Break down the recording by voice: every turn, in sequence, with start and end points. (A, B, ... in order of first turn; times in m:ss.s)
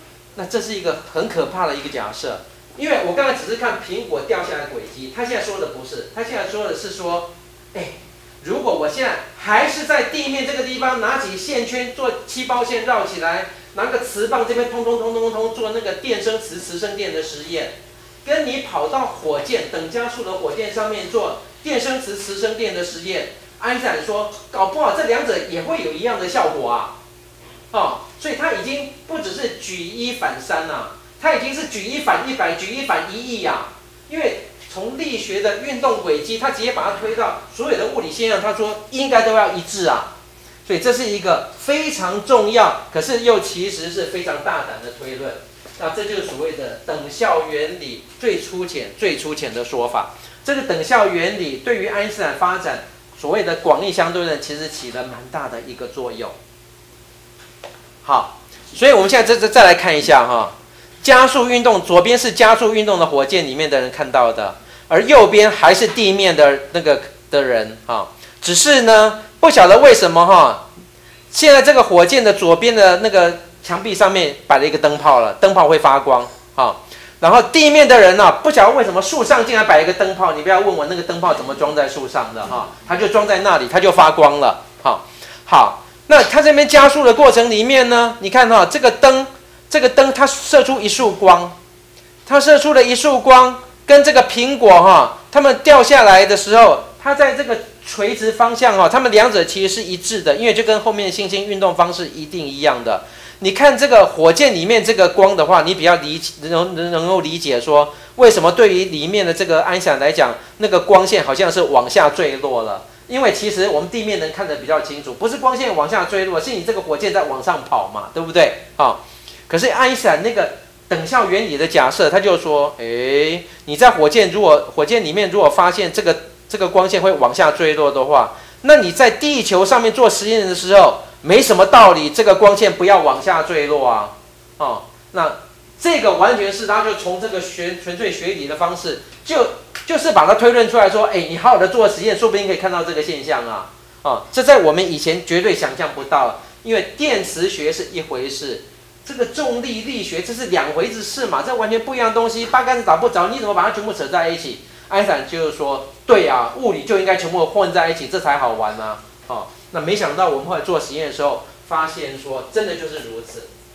0:00.4-0:26.9 A
0:27.7-0:40.1 A
0:40.6-0:56.3 A
0:58.0-1:10.6 A
1:11.3-1:31.6 A
1:32.2-2:43.5 A